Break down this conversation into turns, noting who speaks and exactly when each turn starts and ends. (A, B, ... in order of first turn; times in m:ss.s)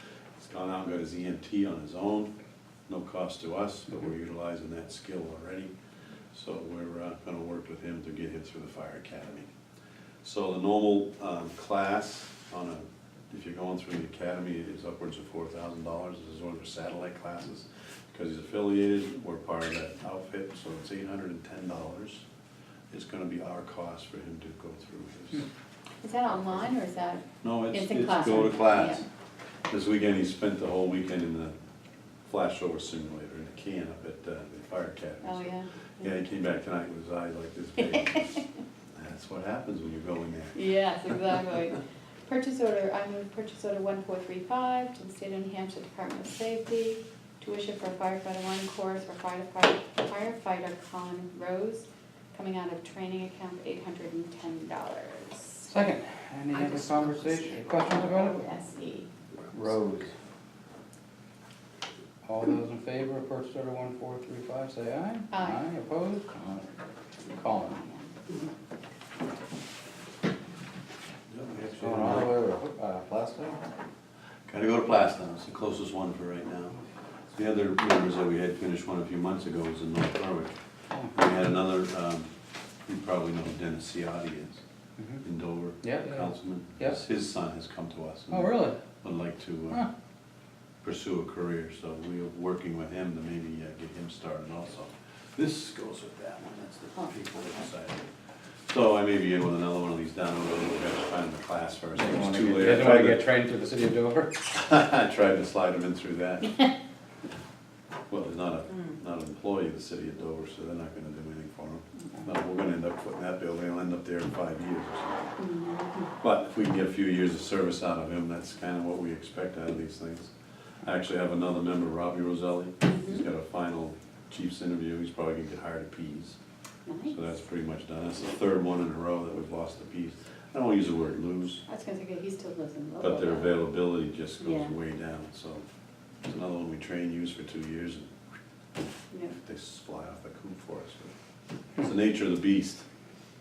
0:00.4-0:02.3 A
0:02.9-0:05.7 A
0:06.3-0:09.5 A
0:10.2-0:22.2 A
0:22.9-0:25.4 A
0:26.0-0:29.0 B
0:27.4-0:29.0 A
0:29.7-0:31.5 A
0:32.2-0:40.6 A
0:35.2-0:36.1 B
0:40.5-0:55.7 B
0:55.7-0:58.4 C
0:56.5-0:59.1 B
0:59.5-1:00.1 C
1:02.2-1:06.7 C
1:05.3-1:05.6 B
1:07.2-1:07.8 C
1:07.5-1:08.2 B
1:11.3-1:12.3 A
1:11.8-1:13.6 C
1:14.5-1:16.8 A
1:17.3-1:20.6 A
1:20.9-1:21.2 C
1:21.1-1:22.3 A
1:22.8-1:24.6 A
1:25.2-1:29.8 A
1:25.8-1:27.0 C
1:28.3-1:28.8 C
1:30.8-1:38.1 A
1:38.7-1:43.3 A
1:41.9-1:44.4 C
1:44.5-1:46.6 A
1:48.1-1:55.3 A
1:55.4-1:56.1 B
1:56.2-2:00.3 A
2:00.8-2:06.4 A
2:02.8-2:03.2 B
2:06.8-2:07.2 B
2:07.1-2:11.6 A
2:11.7-2:13.6 B
2:13.0-2:15.6 A
2:14.4-2:14.7 B
2:16.2-2:18.1 A
2:19.3-2:21.1 A
2:21.8-2:22.9 A